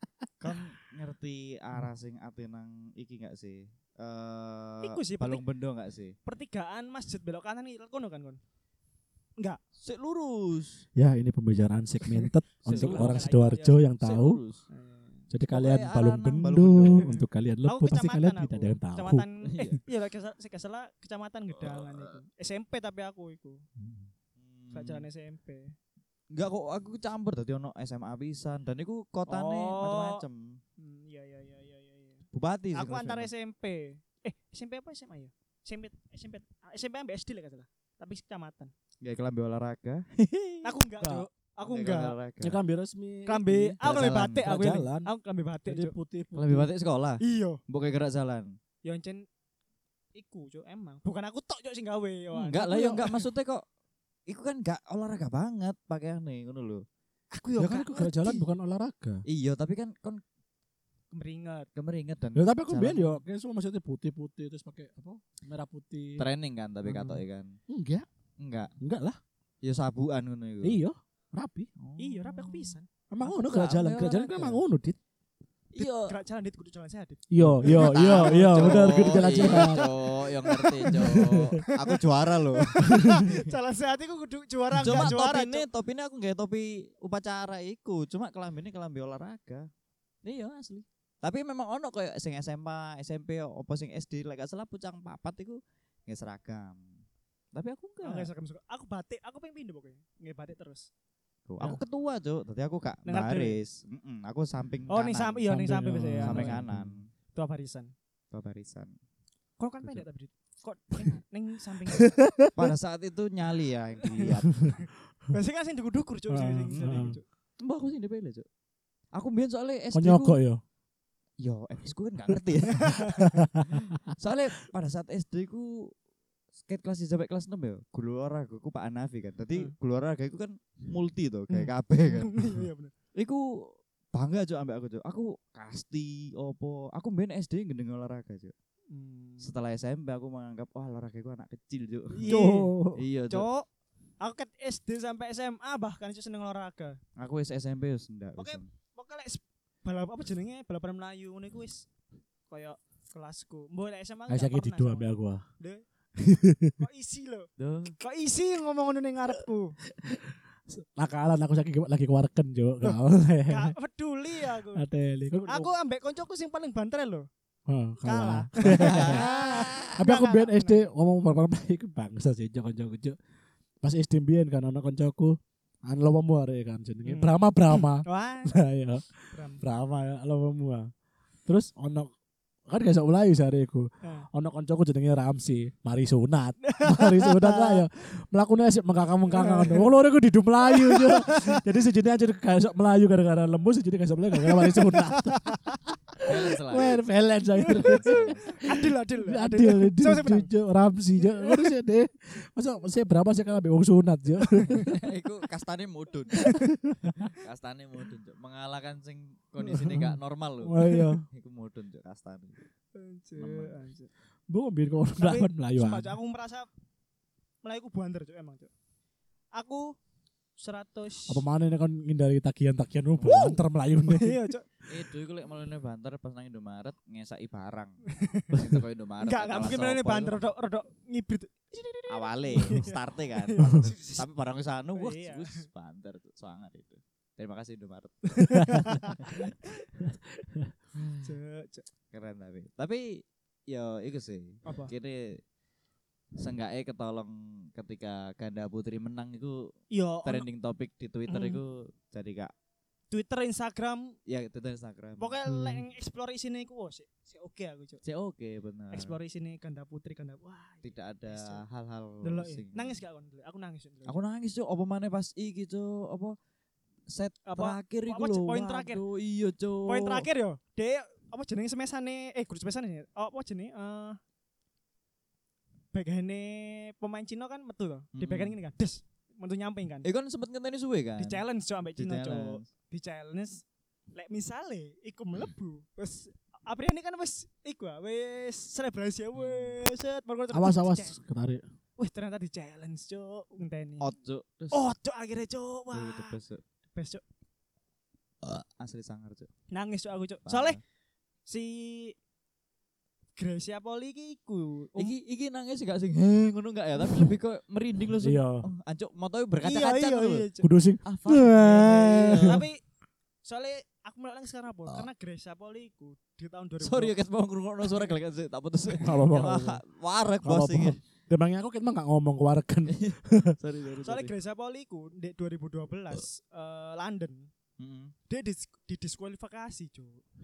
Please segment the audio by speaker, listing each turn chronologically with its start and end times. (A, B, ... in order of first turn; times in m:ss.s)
0:00.4-0:06.2 A
0:04.8-0:05.4 B
0:06.2-0:08.4 B
0:09.8-0:10.8 A
0:11.0-0:14.4 C
0:12.6-0:13.3 A
0:12.7-0:13.8 B
0:14.0-0:14.6 A
0:14.7-0:15.2 B
0:15.3-0:19.2 C
0:15.5-0:17.1 A
0:17.0-0:23.6 B
0:19.4-0:19.8 A
0:21.6-0:22.1 A
0:23.8-0:24.1 C
0:24.4-0:25.0 A
0:24.7-0:25.7 B
0:26.3-0:30.6 A
0:29.3-0:30.2 B
0:30.8-0:38.7 B
0:32.3-0:33.3 A
0:39.0-0:40.7 A
0:40.6-0:42.2 B
0:41.0-0:41.3 C
0:41.6-0:42.6 A
0:42.4-0:45.1 C
0:43.2-0:45.9 B
0:43.8-0:44.8 A
0:45.6-0:46.7 C
0:46.3-0:48.5 A
0:47.2-0:47.6 B
0:48.8-0:49.2 B
0:50.1-0:53.2 B
0:52.3-0:53.6 A
0:54.3-0:56.8 A
0:57.3-0:58.5 B
0:57.6-0:59.2 C
0:59.2-1:00.2 A
1:01.1-1:01.7 B
1:01.7-1:03.2 A
1:02.3-1:06.2 C
1:06.2-1:07.6 A
1:06.9-1:08.1 C
1:08.4-1:08.7 A
1:08.8-1:09.2 C
1:09.6-1:10.8 A
1:10.6-1:11.7 C
1:11.8-1:14.6 A
1:12.0-1:12.9 B
1:13.1-1:15.0 C
1:15.7-1:16.1 A
1:15.8-1:19.9 B
1:17.3-1:19.9 C
1:17.4-1:23.5 A
1:20.5-1:22.0 B
1:20.8-1:21.6 C
1:22.5-1:25.6 B
1:22.8-1:23.2 C
1:24.8-1:29.7 A
1:30.2-1:36.9 A
1:37.5-1:38.3 A
1:38.0-1:40.9 B
1:41.5-1:45.4 A
1:43.0-1:43.6 B
1:44.9-1:46.6 B
1:45.5-1:47.0 C
1:46.2-1:47.1 A
1:47.3-1:47.9 B
1:48.3-1:48.9 A
1:49.6-1:52.2 B
1:52.0-1:52.7 C
1:52.5-1:54.7 A
1:54.2-1:57.2 B
1:54.2-1:54.8 C
1:56.3-1:57.2 C
1:56.7-1:57.1 A
1:57.6-1:58.4 A
1:59.1-2:00.4 A
1:59.9-2:00.6 C
2:01.4-2:05.9 A
2:02.7-2:03.3 B
2:03.0-2:04.0 C
2:06.6-2:12.6 A
2:11.5-2:12.9 B
2:13.1-2:18.5 A
2:18.9-2:19.5 B
2:19.4-2:22.4 A
2:22.2-2:22.7 B
2:22.2-2:23.0 C
2:23.0-2:23.5 A
2:23.3-2:23.7 B
2:24.2-2:27.0 B
2:27.2-2:28.7 A
2:28.4-2:31.9 B
2:32.5-2:35.8 B
2:34.3-2:35.4 C
2:36.2-2:36.8 C
2:36.8-2:39.8 B
2:37.6-2:38.0 A
2:39.9-2:43.7 C
2:42.8-2:44.8 B
2:44.6-2:45.7 C
2:45.4-2:47.3 B
2:47.7-2:49.4 C
2:48.0-2:50.8 B
2:48.6-2:49.9 A
2:50.0-2:53.2 C
2:53.8-3:00.9 C
2:57.0-2:58.6 B
2:59.3-2:59.6 B
3:01.4-3:02.1 C
3:02.7-3:24.9 C
3:04.0-3:04.3 B
3:06.6-3:07.8 B
3:09.3-3:09.8 B
3:10.7-3:11.6 B
3:14.4-3:15.7 B
3:16.2-3:17.0 A
3:17.6-3:20.5 B
3:17.8-3:18.6 A
3:21.3-3:21.7 B
3:24.8-3:26.6 A
3:26.4-3:26.7 B
3:26.5-3:27.1 C
3:27.2-3:32.6 A
3:29.6-3:31.2 C
3:32.9-3:34.1 B
3:33.4-3:33.8 A
3:34.5-3:36.1 C
3:35.2-3:36.7 B
3:37.6-3:38.7 B
3:39.5-3:40.0 B
3:40.6-3:41.4 B
3:41.3-3:44.4 C
3:43.2-3:44.7 B
3:44.9-3:50.4 A
3:48.1-3:48.5 B
3:49.2-3:54.2 B
3:52.1-3:59.4 A
3:53.6-3:53.9 C
3:54.9-3:55.6 B
3:58.3-3:59.9 B
3:58.6-3:58.9 C
4:00.0-4:00.7 C
4:00.9-4:01.3 A
4:01.2-4:01.8 B
4:02.1-4:05.4 A
4:04.6-4:04.9 B
4:06.4-4:09.7 A
4:09.9-4:10.5 B
4:10.2-4:12.5 A
4:11.3-4:11.6 B
4:13.1-4:14.1 B
4:14.3-4:15.4 A
4:15.2-4:18.0 B
4:15.4-4:15.8 C
4:18.0-4:19.2 A
4:18.9-4:21.6 B
4:20.8-4:23.0 A
4:22.2-4:24.2 B
4:24.0-4:26.4 A
4:27.1-4:30.3 A
4:27.4-4:29.0 B
4:29.8-4:34.2 B
4:35.9-4:40.1 B
4:38.1-4:38.6 A
4:40.0-4:41.4 A
4:41.2-4:51.2 B
4:42.0-4:42.6 A
4:49.4-4:49.8 A
4:50.5-4:51.6 C
4:52.0-4:54.1 B
4:54.0-4:54.8 A
4:54.7-4:56.4 B
4:55.9-4:56.6 A
4:56.9-4:57.2 B
4:58.4-4:59.5 A
4:59.7-5:00.8 B
5:00.4-5:00.8 A
5:01.5-5:02.2 B
5:03.4-5:05.1 B
5:05.0-5:10.5 A
5:08.2-5:08.6 C
5:09.6-5:10.7 B
5:10.6-5:12.6 C
5:11.0-5:12.6 A
5:12.3-5:12.8 B
5:13.4-5:17.2 B
5:16.8-5:21.0 A
5:19.0-5:19.8 C
5:20.4-5:23.6 C
5:22.9-5:24.3 A
5:24.0-5:27.5 B
5:27.8-5:28.1 A
5:28.3-5:30.2 B